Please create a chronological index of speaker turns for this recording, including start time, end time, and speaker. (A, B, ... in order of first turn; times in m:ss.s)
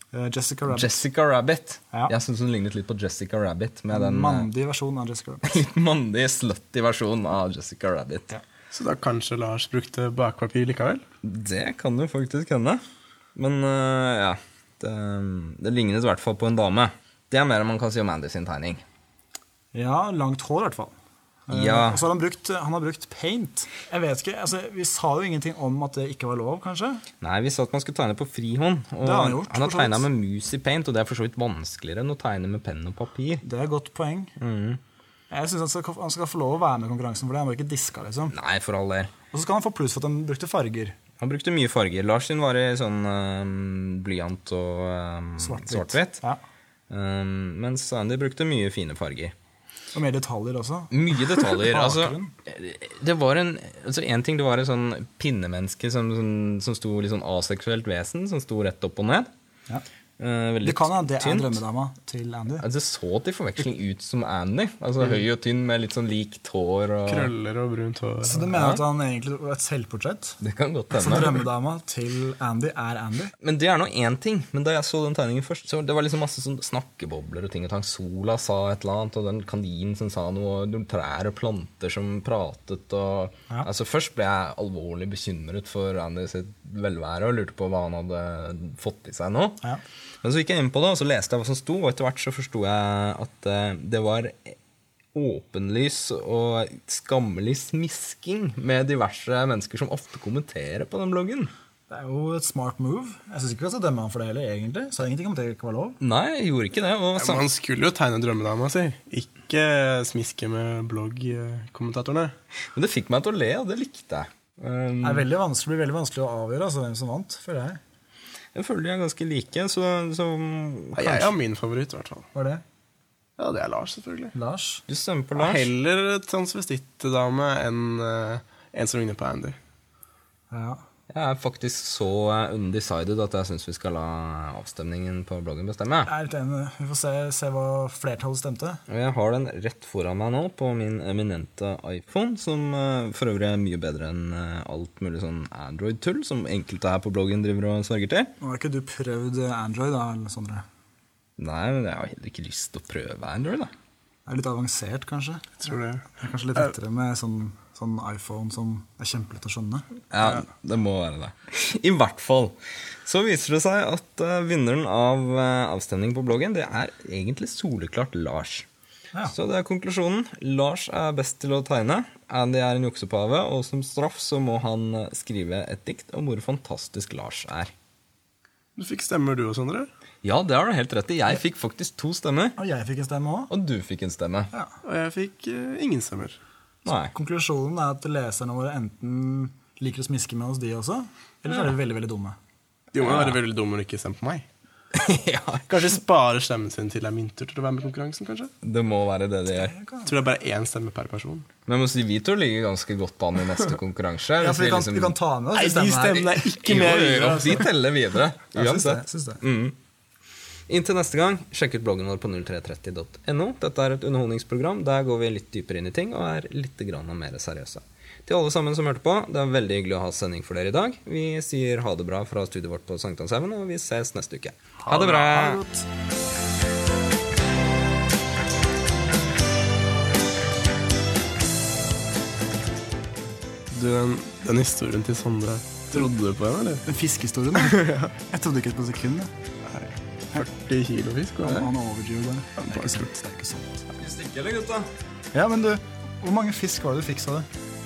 0:00.1-0:01.0 A
0:00.7-0:04.5 B
0:03.9-0:05.5 A
0:05.4-0:08.3 B
0:08.7-0:11.0 C
0:11.2-0:12.8 B
0:13.3-0:18.8 B
0:19.7-0:21.0 A
0:21.5-0:27.0 A
0:21.5-0:22.0 B
0:27.2-0:33.4 B
0:29.0-0:30.0 A
0:33.4-0:34.3 A
0:34.4-0:34.8 B
0:35.3-0:38.3 A
0:38.3-0:39.1 B
0:39.3-0:41.0 A
0:41.2-0:46.2 B
0:45.4-0:46.4 A
0:46.9-0:49.3 B
0:49.9-0:52.3 A
0:50.9-0:59.3 B
1:00.2-1:01.6 B
1:00.6-1:02.6 A
1:02.6-1:07.3 B
1:07.0-1:08.5 C
1:08.2-1:10.4 A
1:08.5-1:08.8 B
1:10.4-1:11.4 B
1:10.9-1:13.3 A
1:13.4-1:29.6 B
1:30.2-1:34.6 B
1:35.1-1:41.5 B
1:41.9-1:46.0 A
1:46.0-1:47.4 B
1:47.2-1:52.3 C
1:52.7-1:55.3 B
1:55.0-1:57.8 A
1:58.5-2:01.3 B
2:01.0-2:02.3 C
2:02.3-2:02.6 A
2:03.4-2:04.3 C
2:04.3-2:04.8 A
2:04.9-2:05.7 B
2:05.3-2:09.6 C
2:10.5-2:10.8 A
2:11.1-2:16.1 B
2:16.0-2:18.8 A
2:18.9-2:28.3 B
2:28.4-2:30.6 A
2:31.4-2:33.7 B
2:34.3-2:40.5 A
2:35.6-2:36.0 C
2:40.1-2:48.7 B
2:49.3-2:57.7 B
2:58.8-2:59.9 C
3:00.2-3:02.6 B
3:02.6-3:03.5 A
3:03.5-3:04.5 B
3:04.8-3:06.4 C
3:06.8-3:07.1 B
3:07.1-3:12.4 A
3:12.9-3:14.4 C
3:13.0-3:13.4 B
3:14.9-3:15.8 B
3:15.7-3:18.5 C
3:18.6-3:19.7 B
3:19.6-3:20.1 A
3:20.0-3:21.5 C
3:21.7-3:25.2 B
3:24.4-3:26.3 A
3:25.5-3:27.7 C
3:26.3-3:29.8 B
3:28.5-3:29.4 A
3:30.7-3:45.6 B
3:44.8-3:45.8 A
3:53.7-3:56.8 C
3:56.8-3:59.3 A
3:57.5-3:58.1 C
3:59.7-4:01.7 C
4:01.4-4:03.8 A
4:02.6-4:03.1 C
4:03.9-4:04.9 B
4:05.3-4:07.5 A